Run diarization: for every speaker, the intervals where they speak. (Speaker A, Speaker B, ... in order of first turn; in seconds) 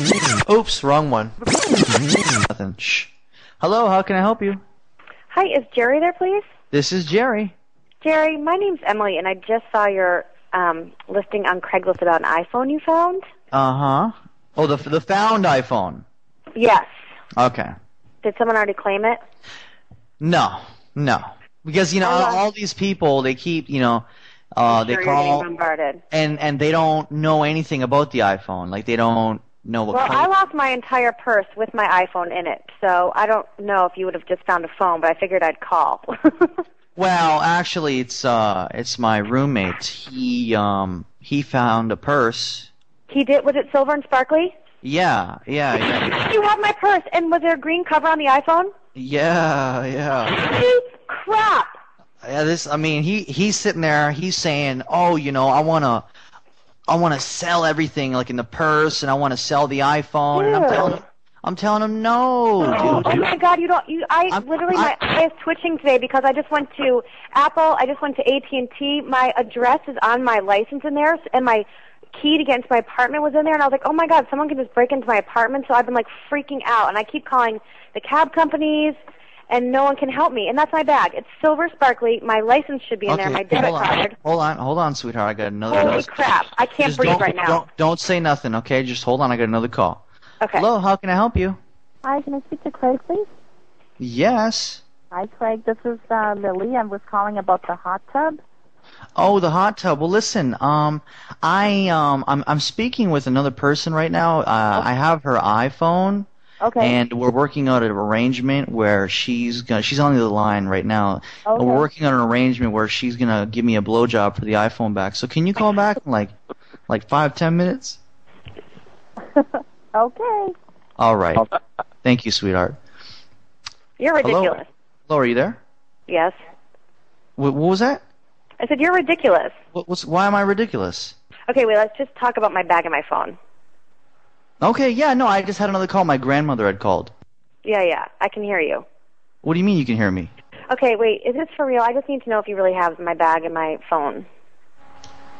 Speaker A: 0.4-1.3, 2.2-4.6, 6.7-7.5, 13.5-16.0, 17.4-17.7, 20.2-25.4, 26.1-30.3, 37.0-42.7, 44.8-46.2, 48.9-50.4, 52.2-56.1, 56.9-63.2, 64.3-64.9, 83.1-86.1, 86.8-90.0, 90.5-91.6, 94.0-94.8, 99.2-106.3, 106.8-116.3, 116.9-118.0, 121.0-121.5, 122.0-122.8, 124.2-125.6, 127.4-128.0, 129.7-131.1, 134.6-137.1, 139.4-140.3
Speaker B: 5.3-6.4, 8.0-13.2, 16.5-16.9, 18.2-19.2, 22.0-22.4, 24.7-26.0, 29.9-36.6, 43.1-44.5, 45.7-48.7, 50.2-51.7, 60.3-61.0, 62.7-79.0, 79.5-84.1, 85.7-87.7, 111.5-111.8, 124.0-124.7, 126.1-126.3, 128.6-129.5, 131.5-133.4, 137.6-138.8, 140.7-144.2
Speaker C: 92.0-93.3, 95.1-98.4, 106.7-107.0, 120.0-120.5